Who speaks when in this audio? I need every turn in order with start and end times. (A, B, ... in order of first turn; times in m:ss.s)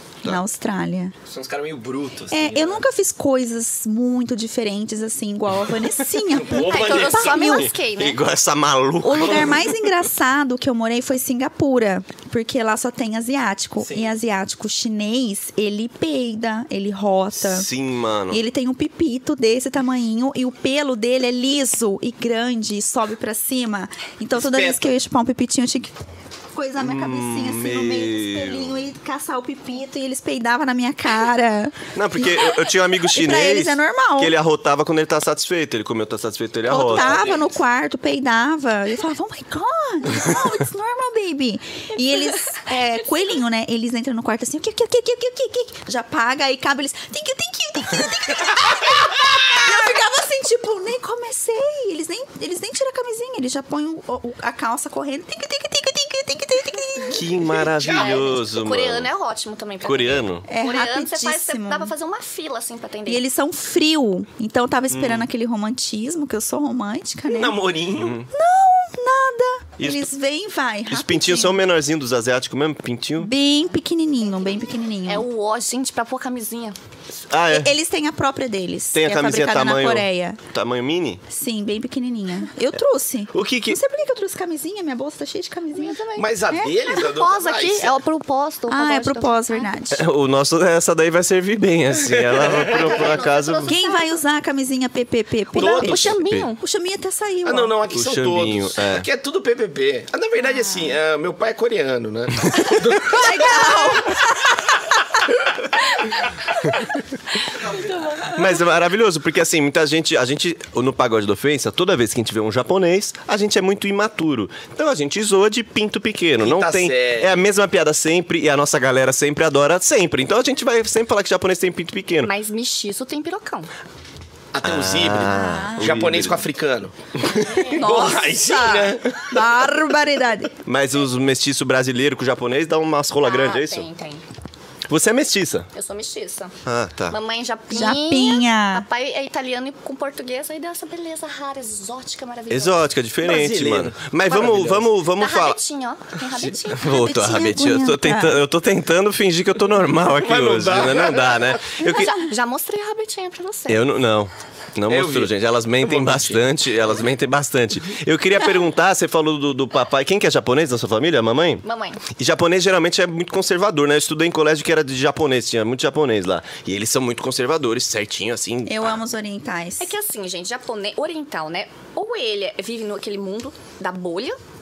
0:00.2-0:01.1 A
0:01.3-0:02.9 B
0:02.3-0:07.7 A
0:06.3-0:07.6 C
0:06.6-0:08.2 D
0:07.6-0:09.7 E
0:09.0-0:17.7 A
0:13.8-0:14.2 B
0:17.4-0:18.4 E
0:18.3-0:26.0 A
0:24.3-0:24.9 C
0:26.5-0:32.6 A
0:26.8-0:28.7 E
0:31.9-0:37.3 E
0:33.1-0:34.3 A
0:36.6-0:57.2 A
0:36.9-0:37.4 C
0:57.1-0:59.1 E
0:57.5-0:58.3 C
0:57.9-1:03.2 D
0:59.8-1:00.5 E
1:00.5-1:01.9 A
1:03.0-1:07.6 A
1:04.9-1:05.3 E
1:07.3-1:08.2 C
1:08.0-1:08.3 E
1:08.3-1:11.6 A
1:10.9-1:13.3 E
1:13.2-1:15.3 A
1:15.0-1:16.8 D
1:17.3-1:17.7 E
1:17.5-1:20.4 A
1:18.9-1:21.2 E
1:21.3-1:26.7 A
1:23.3-1:23.8 E
1:25.7-1:29.7 D
1:26.2-1:27.9 C
1:28.7-1:30.1 A
1:29.9-1:33.7 E
1:32.2-1:33.1 C
1:32.6-1:34.2 D
1:33.6-1:37.7 A
1:35.5-1:36.1 C
1:35.5-1:36.6 D
1:35.9-1:36.5 E
1:37.4-1:43.8 C
1:37.9-1:39.1 E
1:43.0-1:44.5 A
1:48.1-1:48.4 D
1:48.2-2:02.3 E
1:56.4-1:57.3 C
2:02.2-2:03.7 D
2:04.5-2:09.2 C
2:04.6-2:06.4 E
2:05.2-2:06.0 A
2:07.4-2:09.0 D
2:09.3-2:10.5 A
2:10.6-2:13.9 E
2:13.2-2:14.2 D
2:14.9-2:15.7 E
2:15.7-2:16.6 D
2:16.6-2:17.2 E
2:17.1-2:22.8 D
2:17.7-2:18.9 A
2:22.5-2:25.6 E
2:23.2-2:24.7 C
2:23.4-2:24.8 B
2:25.2-2:27.4 D
2:26.7-2:32.2 E
2:26.8-2:28.4 A
2:30.1-2:31.5 C
2:31.8-2:33.8 D
2:33.7-2:48.9 E
2:34.9-2:36.4 C
2:41.6-2:42.0 D
2:48.6-2:50.0 A
2:49.8-2:54.4 D